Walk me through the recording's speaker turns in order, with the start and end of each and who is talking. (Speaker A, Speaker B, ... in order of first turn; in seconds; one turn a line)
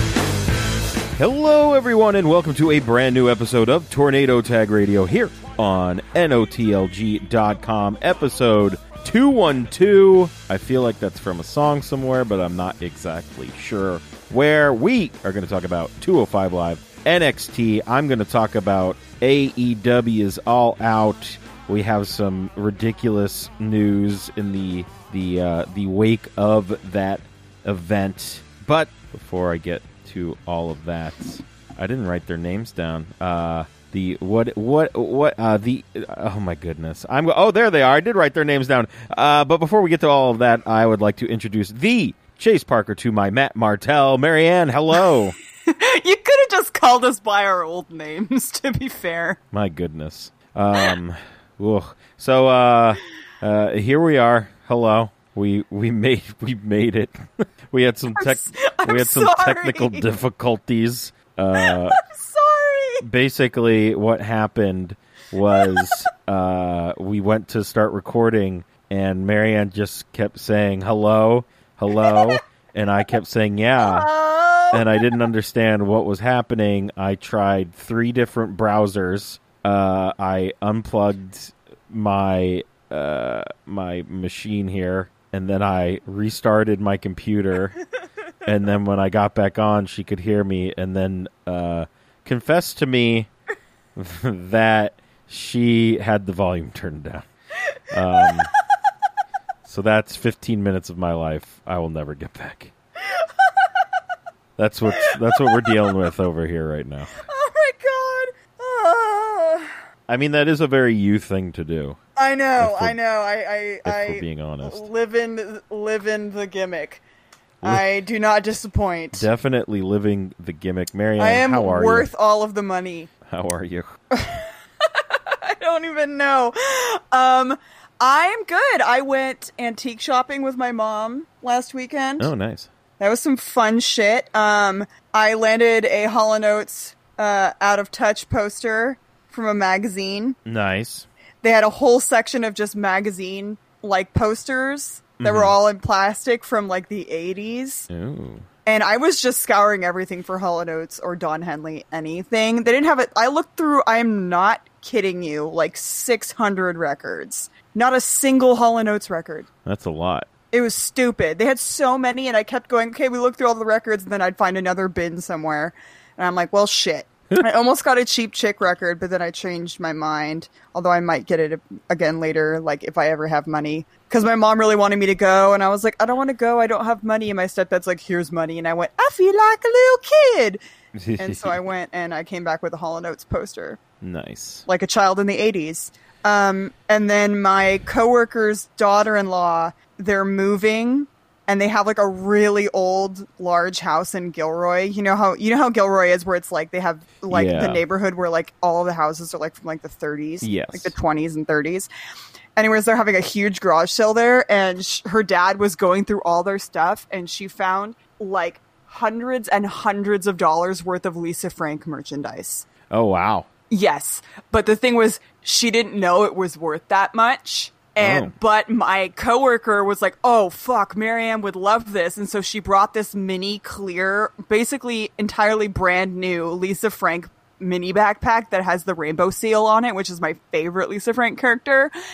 Speaker A: 1.2-45.3
Speaker B: 45.6-49.4
Speaker A: 49.5-62.0
Speaker B: 58.2-60.0
Speaker B: 61.5-63.0
Speaker A: 63.0-74.1
Speaker B: 65.5-66.0
Speaker B: 72.0-72.3
Speaker B: 73.8-75.2
Speaker A: 74.7-87.8
Speaker A: 88.4-93.3
Speaker A: 93.9-97.3
Speaker A: 97.9-98.5
Speaker A: 99.7-102.7
Speaker B: 103.0-103.7
Speaker A: 104.6-107.1
Speaker B: 104.9-105.7
Speaker B: 107.2-109.7
Speaker A: 110.1-112.0
Speaker B: 112.2-117.0
Speaker A: 112.6-113.0
Speaker A: 113.8-114.9
Speaker B: 117.6-119.2
Speaker A: 119.1-122.1
Speaker B: 121.2-123.1
Speaker A: 123.3-123.9
Speaker B: 124.1-132.3
Speaker A: 132.2-132.7
Speaker B: 133.0-140.4
Speaker A: 140.4-141.1
Speaker B: 141.4-147.9
Speaker A: 145.2-145.6
Speaker A: 147.9-148.4
Speaker B: 148.7-159.5
Speaker A: 159.6-160.3
Speaker B: 160.5-180.6
Speaker A: 180.9-181.6
Speaker B: 181.2-183.8
Speaker A: 184.0-184.6
Speaker B: 184.7-201.9
Speaker A: 197.3-197.8
Speaker A: 200.4-200.9
Speaker B: 202.6-212.7
Speaker A: 212.9-213.5
Speaker B: 213.7-231.9
Speaker A: 218.0-218.3